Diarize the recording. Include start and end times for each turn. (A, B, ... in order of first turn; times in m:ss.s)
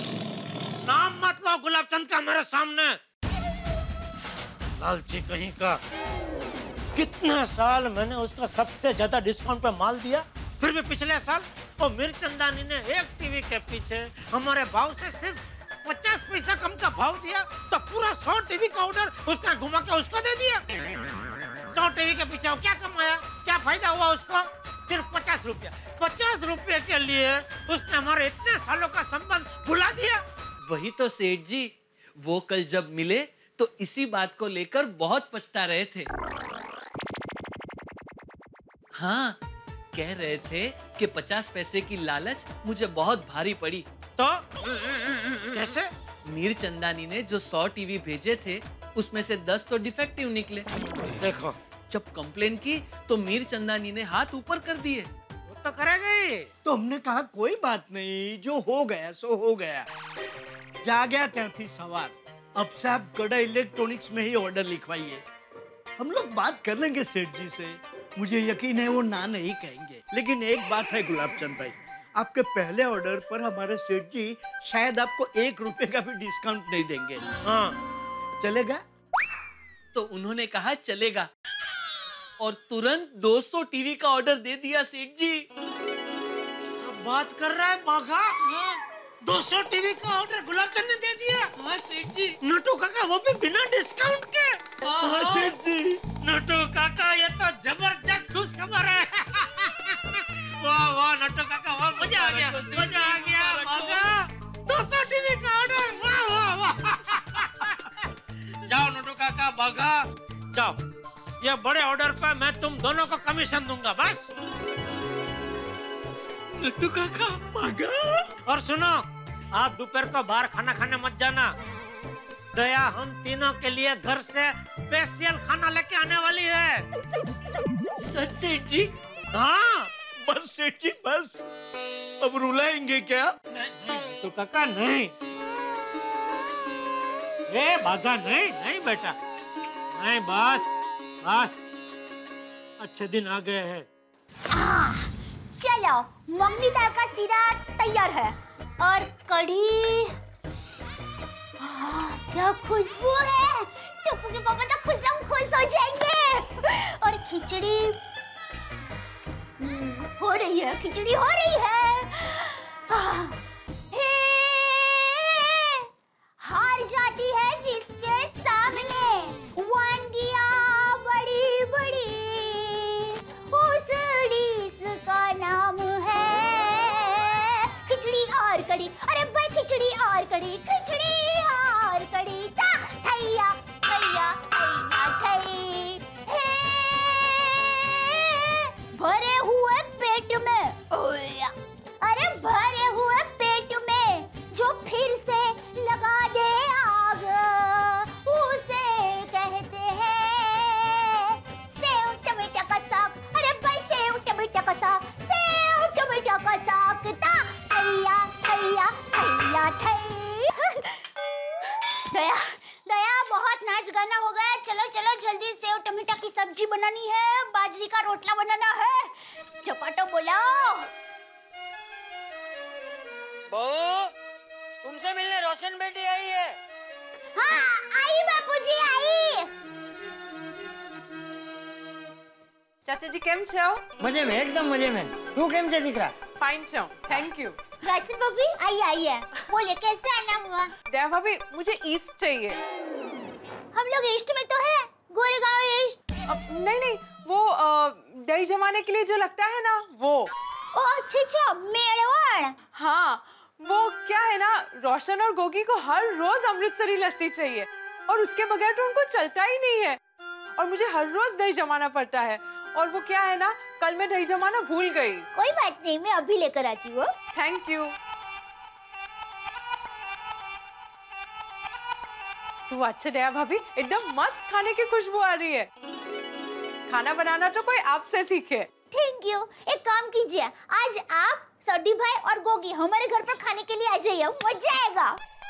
0:00.9-0:03.0 A
0:04.8-0:05.8 A
0:07.0-0:20.6 A
0:21.7-0:30.2 A
0:30.6-0:36.1 B
0:39.0-0:39.4 B
0:39.9-0:43.9 B
0:45.5-0:45.9 A
0:46.3-0:50.7 B
0:51.2-0:51.6 A
0:51.9-0:55.1 B
0:55.5-0:56.5 A
0:56.6-0:59.9 C
1:00.8-1:05.2 C
1:06.0-1:17.2 C
1:17.5-1:17.8 A
1:18.4-1:18.8 C
1:19.9-1:21.3 B
1:22.4-1:25.4 B
1:26.8-1:28.3 A
1:28.5-1:28.8 B
1:29.2-1:31.5 A
1:31.6-1:32.4 B
1:32.4-1:34.5 A
1:34.8-1:35.5 B
1:35.0-1:36.0 C
1:36.2-1:47.7 A
1:42.0-1:44.0 B
1:48.7-1:50.8 A
1:51.4-1:54.3 A
1:56.6-1:57.5 B
1:57.5-1:58.1 C
1:58.5-1:59.0 A
1:59.6-2:01.5 A
2:02.6-2:06.8 A
2:08.0-2:08.9 B
2:09.3-2:09.9 A
2:10.2-2:11.5 C
2:12.2-2:13.4 C
2:13.8-2:15.1 A
2:17.5-2:19.2 A
2:20.0-2:20.7 A
2:21.3-2:21.6 A
2:22.8-2:23.9 A
2:24.5-2:30.1 D
2:31.6-2:38.0 D
2:39.6-2:43.4 D
2:43.9-2:45.8 D
2:46.4-3:31.0 D
3:32.1-3:40.9 D
3:43.5-3:44.1 E
3:44.8-3:46.6 E
3:47.4-3:49.5 D
3:52.9-3:53.8 F
3:54.0-3:56.2 E
3:56.4-3:57.6 F
3:57.8-4:00.7 D
4:00.9-4:02.6 F
4:03.7-4:06.0 D
4:06.3-4:10.3 F
4:10.8-4:12.6 D
4:12.8-4:20.0 F
4:20.6-4:25.2 F
4:25.4-4:27.1 D
4:27.3-4:27.9 F
4:32.6-4:35.7 F
4:36.9-4:38.7 F
4:38.9-4:45.2 D